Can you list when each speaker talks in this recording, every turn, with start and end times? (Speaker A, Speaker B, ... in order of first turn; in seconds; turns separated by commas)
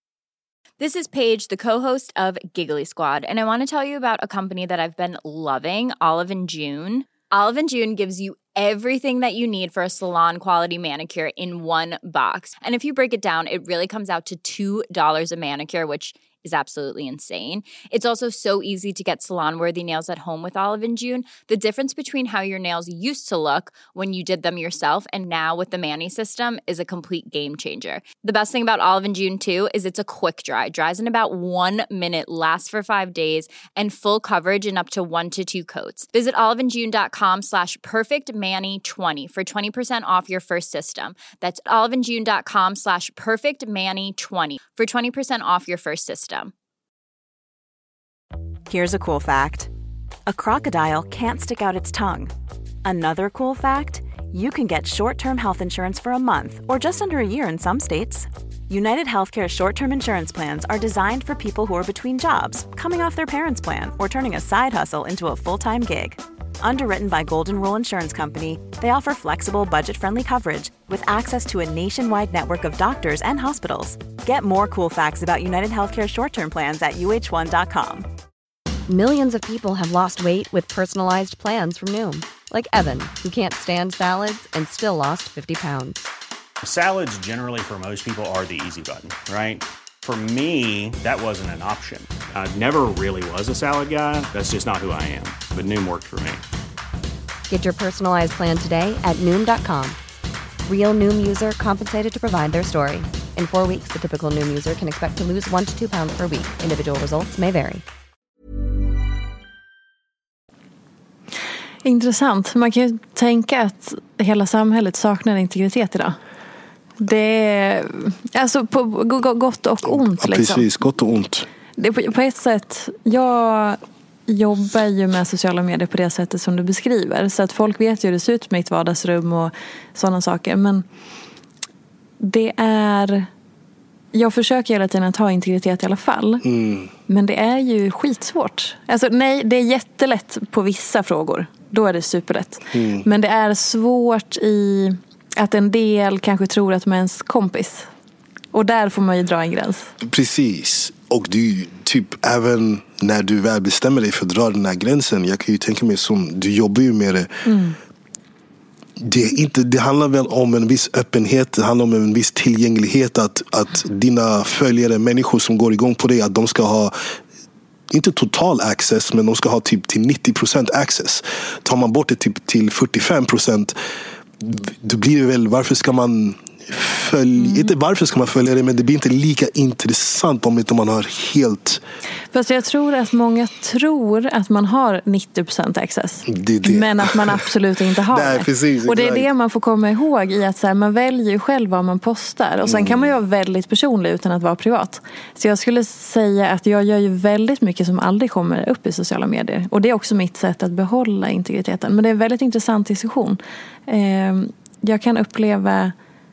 Speaker A: 0.8-46.5, Speaker B: 48.7-49.7, Speaker B: 50.2-52.3, Speaker B: 52.8-78.0, Speaker C: 78.9-86.0, Speaker D: 86.6-96.4, Speaker C: 97.5-100.0, Speaker C: 100.6-107.8, Speaker E: 111.8-116.2, Speaker E: 117.0-120.7, Speaker F: 119.8-121.5, Speaker E: 121.8-130.8, Speaker E: 132.2-133.3, Speaker E: 134.1-136.4, Speaker F: 136.4-136.9, Speaker E: 137.1-147.9, Speaker F: 142.7-143.1, Speaker E: 148.5-149.9, Speaker F: 150.0-157.3, Speaker E: 157.4-157.8, Speaker F: 159.0-166.9, Speaker F: 167.9-173.7, Speaker F: 174.4-181.8, Speaker E: 177.4-177.7, Speaker E: 182.3-205.9, Speaker F: 186.3-187.4, Speaker F: 188.1-189.3, Speaker F: 192.6-193.1